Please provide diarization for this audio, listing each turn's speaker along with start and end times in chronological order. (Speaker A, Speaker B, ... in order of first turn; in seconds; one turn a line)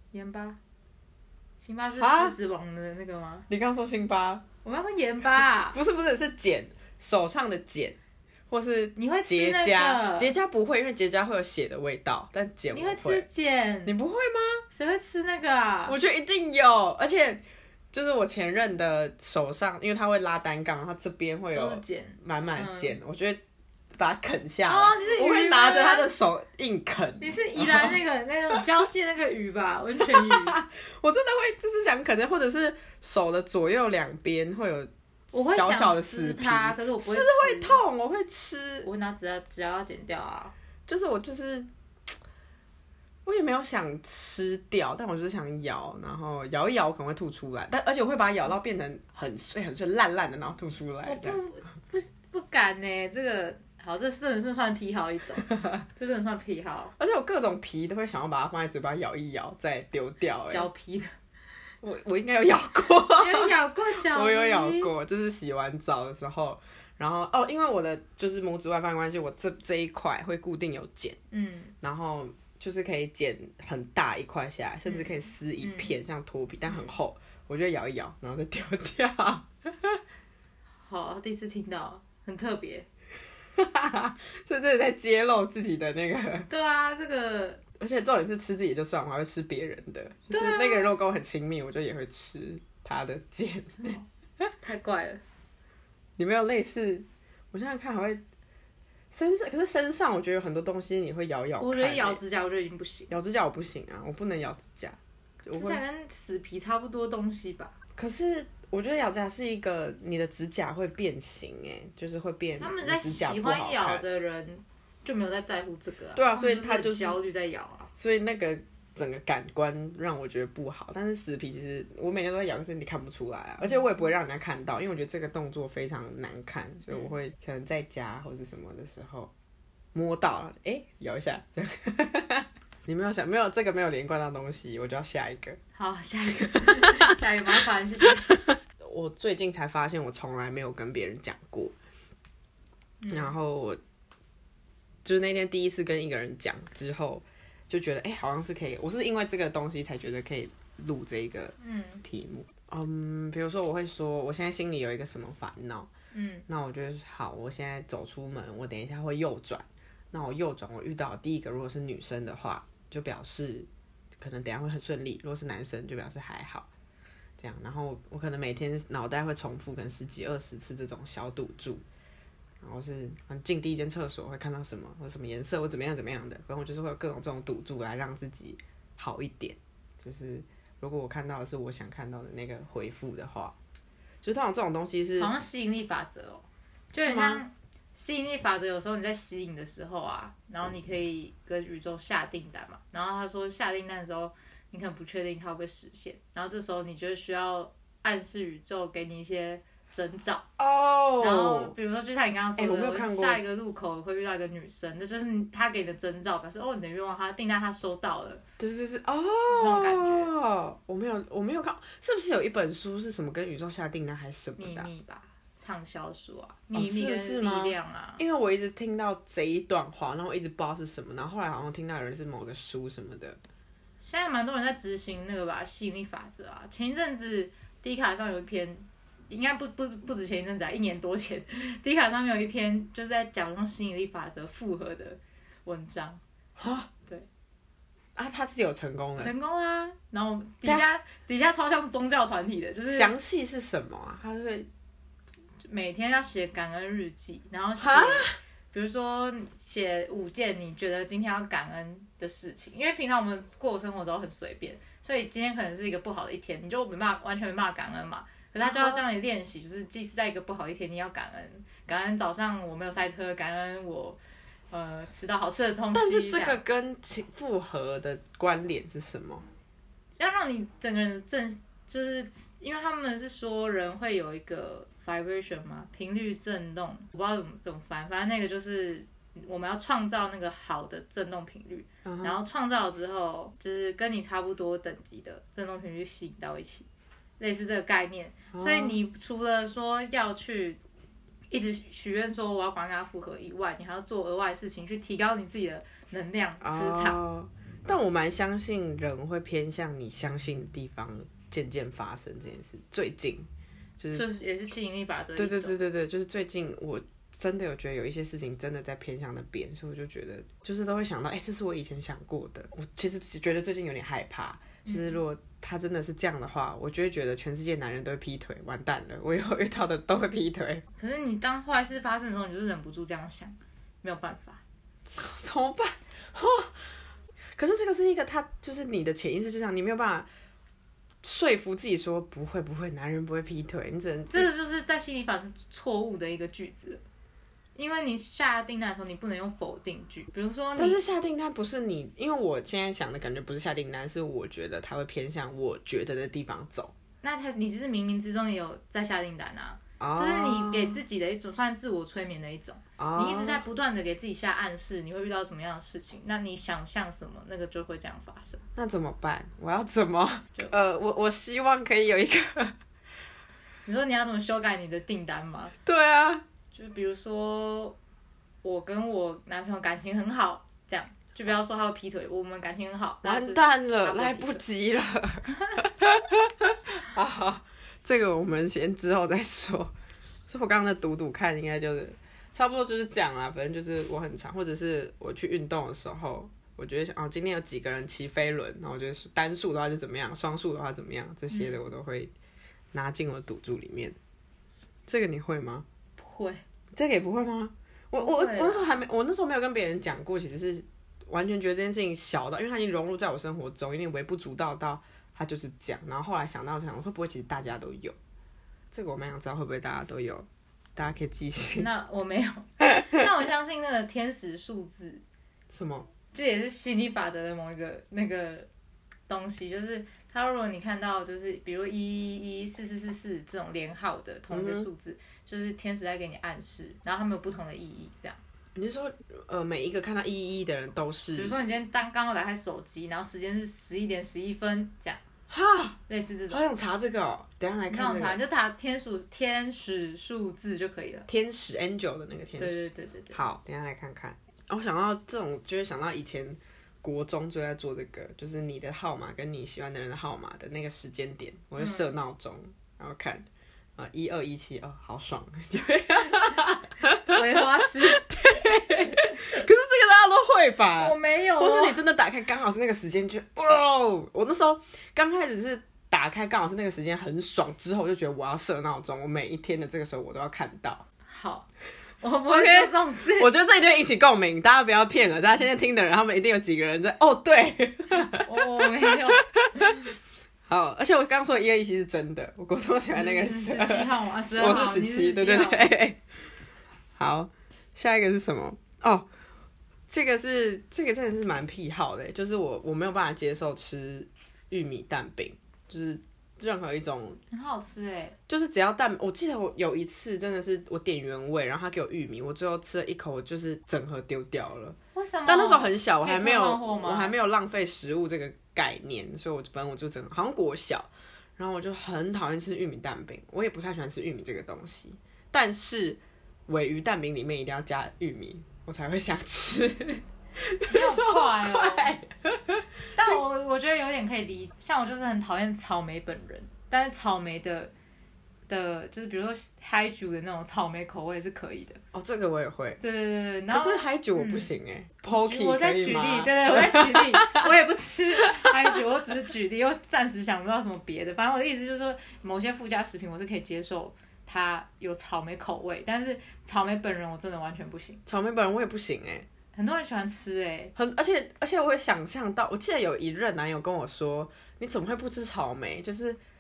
Speaker A: 0.1-0.6
Speaker A: 1.6-3.5
Speaker B: 2.0-2.4
Speaker B: 3.5-4.4
Speaker A: 4.6-5.8
Speaker B: 5.7-8.0
Speaker B: 8.5-13.2
Speaker A: 9.0-10.3
Speaker A: 12.7-14.0
Speaker B: 13.9-14.6
Speaker A: 14.7-16.0
Speaker B: 15.9-23.4
Speaker A: 21.5-23.0
Speaker B: 23.9-28.0
Speaker A: 24.7-26.1
Speaker A: 27.2-30.6
Speaker B: 30.0-38.9
Speaker A: 35.3-37.8
Speaker A: 38.8-40.5
Speaker B: 40.9-41.7
Speaker B: 43.2-51.4
Speaker A: 51.0-57.0
Speaker B: 57.0-60.7
Speaker A: 60.5-61.1
Speaker B: 61.8-71.2
Speaker A: 63.1-64.9
Speaker A: 71.3-71.8
Speaker B: 71.8-80.0
Speaker A: 74.9-76.0
Speaker A: 76.7-76.9
Speaker A: 80.8-82.9
Speaker B: 83.6-86.5
Speaker A: 86.5-87.6
Speaker B: 87.8-94.0
Speaker A: 90.3-90.9
Speaker A: 93.8-94.1
Speaker A: 94.6-95.2
Speaker B: 96.2-98.2
Speaker B: 99.1-102.2
Speaker A: 101.6-103.1
Speaker B: 103.1-105.8
Speaker A: 105.5-107.7
Speaker B: 108.0-114.0
Speaker A: 112.6-117.9
Speaker B: 116.2-117.2
Speaker B: 118.0-129.3
Speaker A: 126.9-127.1
Speaker B: 129.9-135.6
Speaker A: 135.8-138.4
Speaker B: 136.4-137.0
Speaker B: 138.2-141.7
Speaker A: 143.0-143.4
Speaker B: 143.1-143.8
Speaker B: 145.1-155.9
Speaker A: 151.6-152.0
Speaker A: 156.1-156.5
Speaker B: 156.5-166.7
Speaker B: 167.4-171.8
Speaker B: 172.6-183.6
Speaker B: 184.2-185.3
Speaker A: 185.2-200.5
Speaker B: 187.0-187.4
Speaker B: 200.6-201.7
Speaker A: 201.2-208.4
Speaker B: 202.6-203.4
Speaker B: 208.6-214.9
Speaker A: 209.5-210.3
Speaker A: 214.6-218.2
Speaker B: 216.7-223.4
Speaker A: 224.0-236.2
Speaker B: 236.6-236.9
Speaker B: 238.2-239.3
Speaker A: 239.2-243.1
Speaker B: 242.9-244.7
Speaker A: 245.6-264.2
Speaker B: 247.8-248.4
Speaker B: 258.6-259.0
Speaker A: 264.7-266.6
Speaker B: 265.9-269.4
Speaker A: 270.2-286.9
Speaker B: 282.1-282.4
Speaker A: 287.4-290.8
Speaker B: 288.5-289.0
Speaker A: 291.5-297.2
Speaker B: 296.6-303.5
Speaker B: 304.0-304.2
Speaker A: 304.1-305.8
Speaker B: 305.4-320.8
Speaker A: 314.9-315.2
Speaker A: 321.0-324.6
Speaker B: 325.1-326.8
Speaker B: 327.6-330.3
Speaker B: 331.2-334.5
Speaker A: 334.3-337.0
Speaker A: 337.8-341.0
Speaker B: 340.8-346.9
Speaker A: 347.2-358.6
Speaker B: 350.0-351.0
Speaker B: 353.0-353.6
Speaker B: 358.8-362.8
Speaker A: 360.5-360.9
Speaker A: 363.9-365.8
Speaker B: 365.9-366.4
Speaker A: 366.7-368.0
Speaker A: 368.6-374.6
Speaker B: 373.2-379.9
Speaker B: 380.5-392.3
Speaker A: 391.5-391.8
Speaker B: 392.9-394.2
Speaker B: 395.1-395.9
Speaker A: 396.2-396.6
Speaker B: 396.9-408.2
Speaker A: 398.2-399.0
Speaker B: 408.9-411.9
Speaker A: 411.8-415.2
Speaker B: 415.7-416.1
Speaker A: 416.3-418.7
Speaker A: 419.3-428.4
Speaker B: 424.5-424.9
Speaker B: 428.8-431.6
Speaker A: 431.4-435.2
Speaker B: 435.5-436.0
Speaker A: 436.1-436.6
Speaker B: 436.5-438.4
Speaker A: 437.9-441.3
Speaker B: 441.3-453.4
Speaker A: 442.6-443.4
Speaker A: 451.8-452.1
Speaker B: 454.0-471.1
Speaker A: 457.2-458.3
Speaker A: 461.0-462.0
Speaker A: 471.3-471.7
Speaker A: 472.2-473.5
Speaker B: 472.5-480.1
Speaker A: 478.4-479.9
Speaker B: 480.7-486.2
Speaker A: 483.1-485.9
Speaker B: 487.2-489.3
Speaker B: 490.1-497.4
Speaker A: 497.5-498.4
Speaker B: 498.5-523.4
Speaker A: 505.1-507.4
Speaker A: 520.9-522.2
Speaker A: 523.2-527.9
Speaker A: 528.7-532.0
Speaker B: 532.1-533.0
Speaker A: 533.0-534.7
Speaker B: 533.7-537.7
Speaker A: 535.2-548.2
Speaker B: 548.3-549.5
Speaker A: 549.7-550.9
Speaker B: 551.0-556.4